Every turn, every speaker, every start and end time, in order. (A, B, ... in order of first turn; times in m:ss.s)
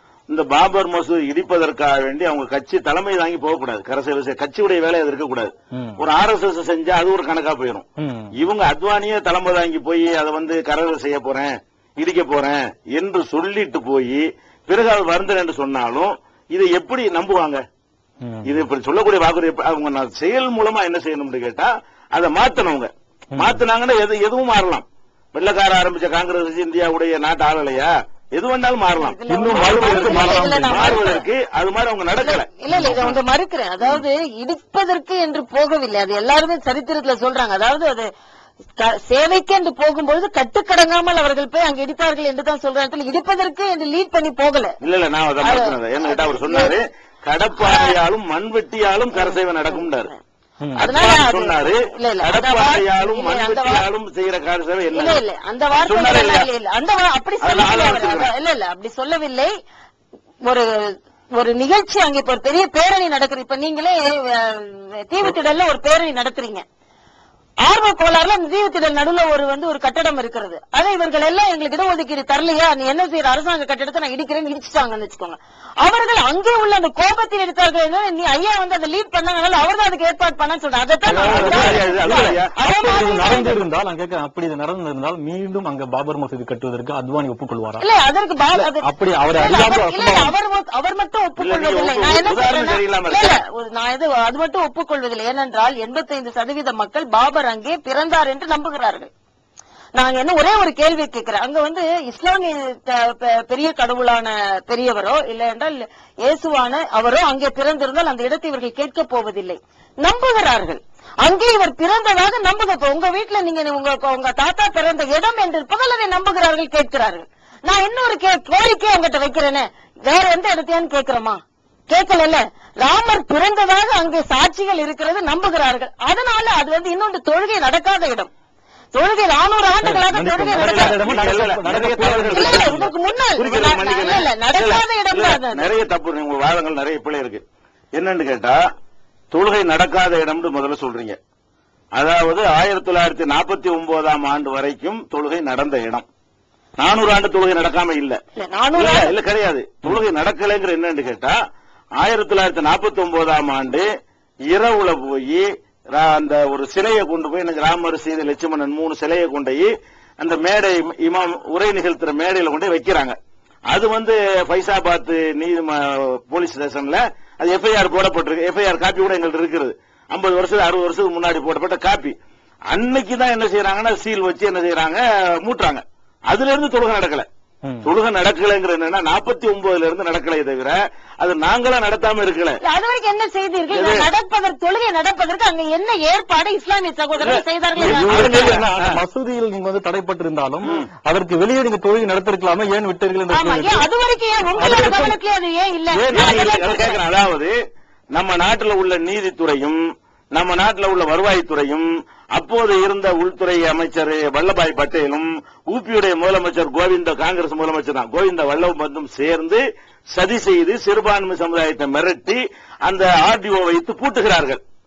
0:00.3-0:07.8 A
0:05.7-0:06.0 B
0:08.0-0:08.3 B
0:08.4-0:17.6 A
0:18.2-0:18.6 B
0:18.5-0:33.1 A
0:23.3-0:23.6 B
0:29.0-0:31.3 C
0:29.3-0:31.0 B
0:32.2-0:38.1 C
0:32.7-0:33.0 B
0:38.8-0:44.8 C
0:44.8-0:50.1 A
0:45.4-0:46.8 C
0:47.6-0:48.0 C
0:49.1-0:50.2 C
0:50.6-0:50.9 B
0:50.8-0:53.9 C
0:50.9-0:55.2 A
0:54.9-0:59.5 C
0:55.8-0:56.5 A
0:57.4-0:58.3 A
1:00.4-1:06.6 C
1:07.6-1:23.6 C
1:21.0-1:21.9 B
1:21.2-1:22.5 A
1:22.8-1:27.8 B
1:27.8-1:39.1 C
1:28.5-1:30.4 B
1:31.4-1:33.4 A
1:40.0-2:08.3 C
2:08.9-2:11.0 C
2:09.8-2:12.9 B
2:10.5-2:12.8 A
2:12.3-2:15.7 C
2:13.4-2:17.4 A
2:18.0-2:18.6 A
2:19.3-2:21.2 A
2:22.0-2:26.0 A
2:26.8-2:28.2 A
2:28.4-2:29.2 C
2:28.8-2:31.4 A
2:32.0-2:33.9 A
2:34.5-2:39.7 A
2:40.2-2:43.2 A
2:43.7-2:52.2 A
2:52.7-2:57.3 A
2:57.6-2:57.9 B
2:57.8-3:02.6 A
3:02.6-3:08.6 C
3:03.7-3:04.1 A
3:07.2-3:09.0 A
3:07.8-3:13.9 B
3:10.6-3:10.9 A
3:13.3-3:17.0 C
3:14.6-3:15.2 B
3:15.9-3:16.5 B
3:16.1-3:17.6 A
3:18.2-3:19.8 A
3:20.4-3:29.6 A
3:30.1-3:34.6 A